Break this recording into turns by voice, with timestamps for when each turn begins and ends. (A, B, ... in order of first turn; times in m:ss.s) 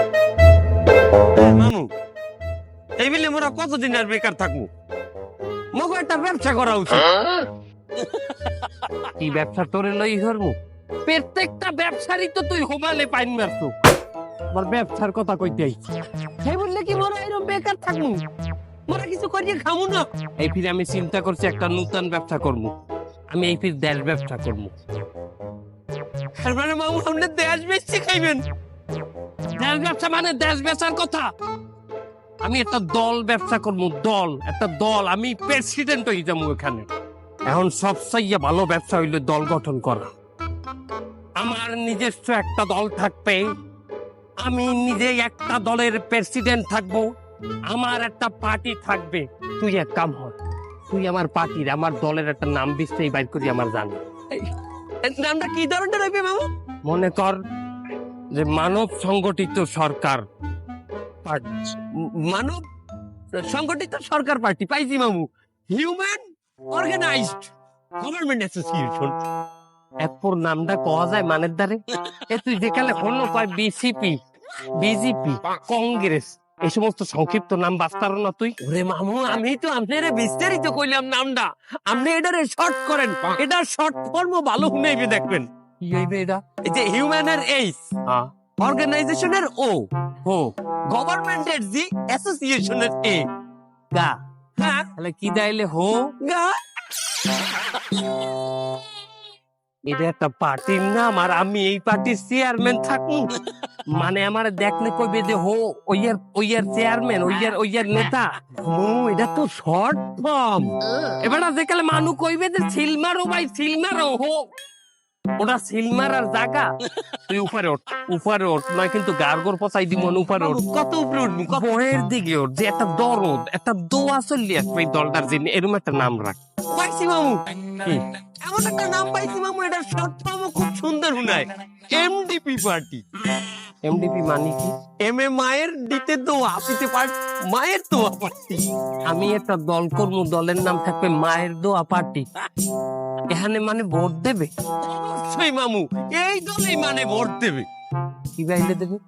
0:01.3-0:01.9 A
0:03.0-0:04.7 A
0:05.7-0:07.2 A
0:09.2-0:13.7 B
0:14.5-0:15.8 B
0:16.4-0:18.2 A
0:18.9-0:20.0 A
0:20.4-0:22.7 B
0:23.3-0:24.7 B
0:26.4-0:28.4 A
0:29.6-0:31.3 B
0:32.4-0:36.9 B
0:37.5-0:40.1 B
0:41.4-0:43.4 B
0:44.4-0:47.1 B
0:47.7-0:50.3 B
0:50.9-0:54.0 B
0:55.0-0:56.5 A
0:56.8-0:57.4 B
0:58.3-1:00.2 B
1:01.2-1:01.8 B
1:01.9-1:02.6 A
1:03.3-1:09.1 A
1:10.0-1:14.2 B
1:14.8-1:18.6 B
1:18.6-1:25.5 A
1:25.8-1:26.4 B
1:26.6-1:27.8 A
1:28.6-1:29.8 A
1:30.2-1:30.5 B
1:30.9-1:33.2 A
1:34.6-1:34.9 A
1:35.0-1:36.1 B
1:36.2-1:36.6 A
1:39.9-1:43.3 B
1:43.9-1:48.5 B
1:48.6-1:50.7 A
1:51.2-1:54.4 B
1:55.4-2:00.6 B
2:00.4-2:01.6 A
2:01.5-2:06.4 B
2:06.7-2:13.0 A
2:13.8-2:14.7 B
2:15.0-2:18.6 A
2:19.0-2:22.3 B
2:23.3-2:24.5 B
2:24.8-2:27.7 A
2:28.3-2:29.0 B